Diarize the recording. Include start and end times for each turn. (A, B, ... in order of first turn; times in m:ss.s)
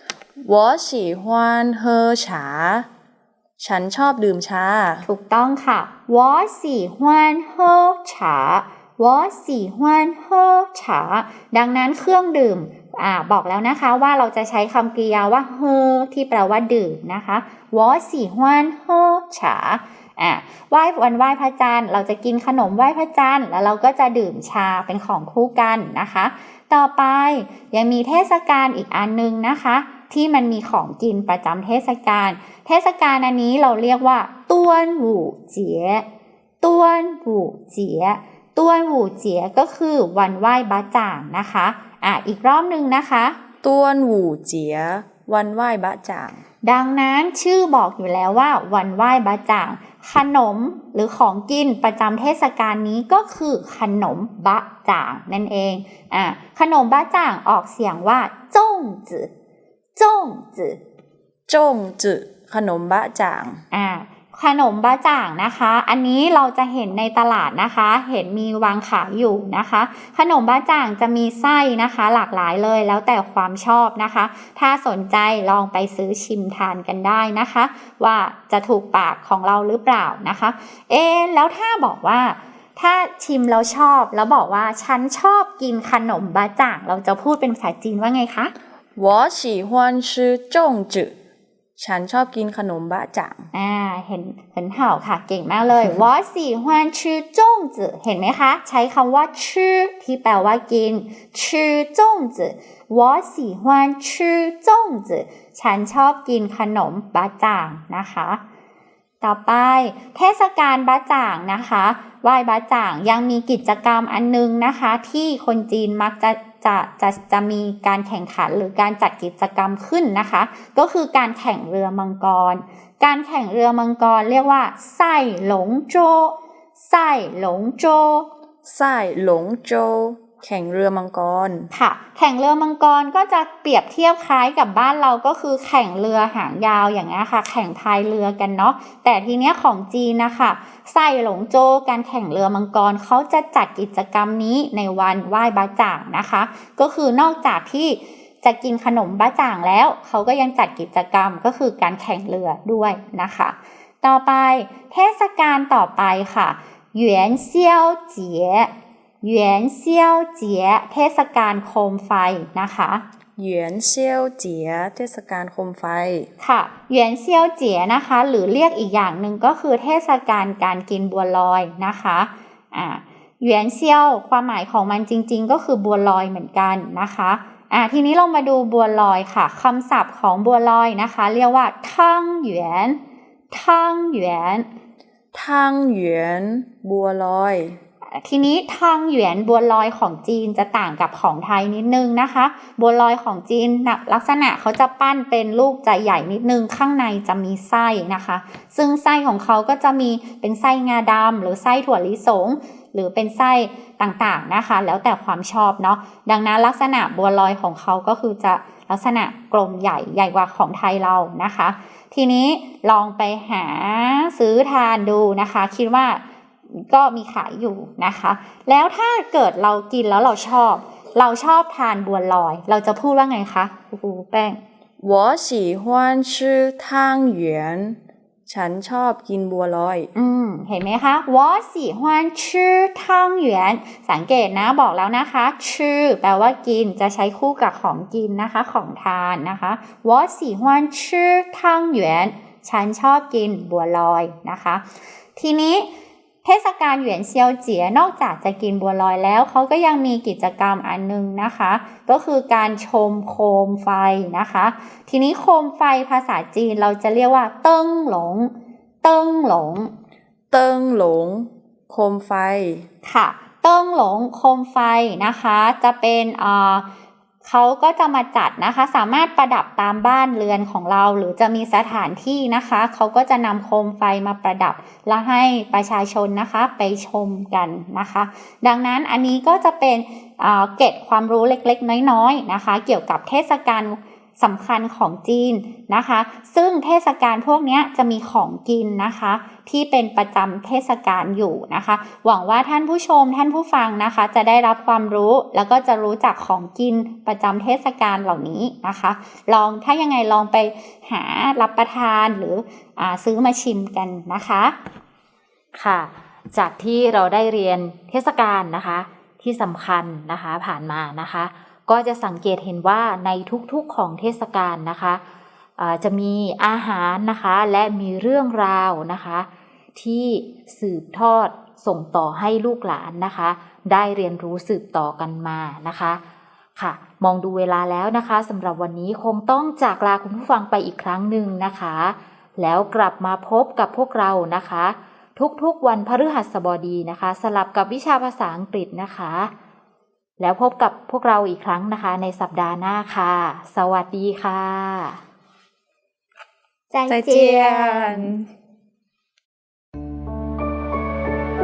0:00.4-0:02.9 A
0:03.6-0:05.1 A
0:05.1-0:36.0 B
0:36.6-0:43.4 B
0:43.6-0:46.4 A
0:46.6-0:59.3 B
1:00.0-1:00.8 B
1:01.5-1:03.6 A
1:03.7-1:28.5 B
1:29.0-1:31.1 A
1:31.8-1:33.5 A
1:33.5-1:48.4 B
1:49.2-2:08.3 B
2:08.6-2:11.7 A
2:11.7-2:38.7 B
2:39.2-2:43.0 B
2:43.4-2:46.3 A
2:46.4-3:03.0 B
3:03.5-3:04.7 B
3:05.3-3:07.8 A
3:08.2-3:36.2 B
3:36.8-3:44.6 B
3:45.0-3:50.1 A
3:50.2-4:04.8 B
4:05.4-4:05.9 B
4:06.4-4:19.9 B
4:20.5-4:22.9 A
4:23.0-4:26.9 B
4:27.4-5:04.8 B
5:05.8-5:15.2 C
5:15.8-5:26.2 C
5:26.8-5:39.5 C
5:40.4-5:45.2 C
5:46.9-5:48.3 B
5:47.1-5:48.5 A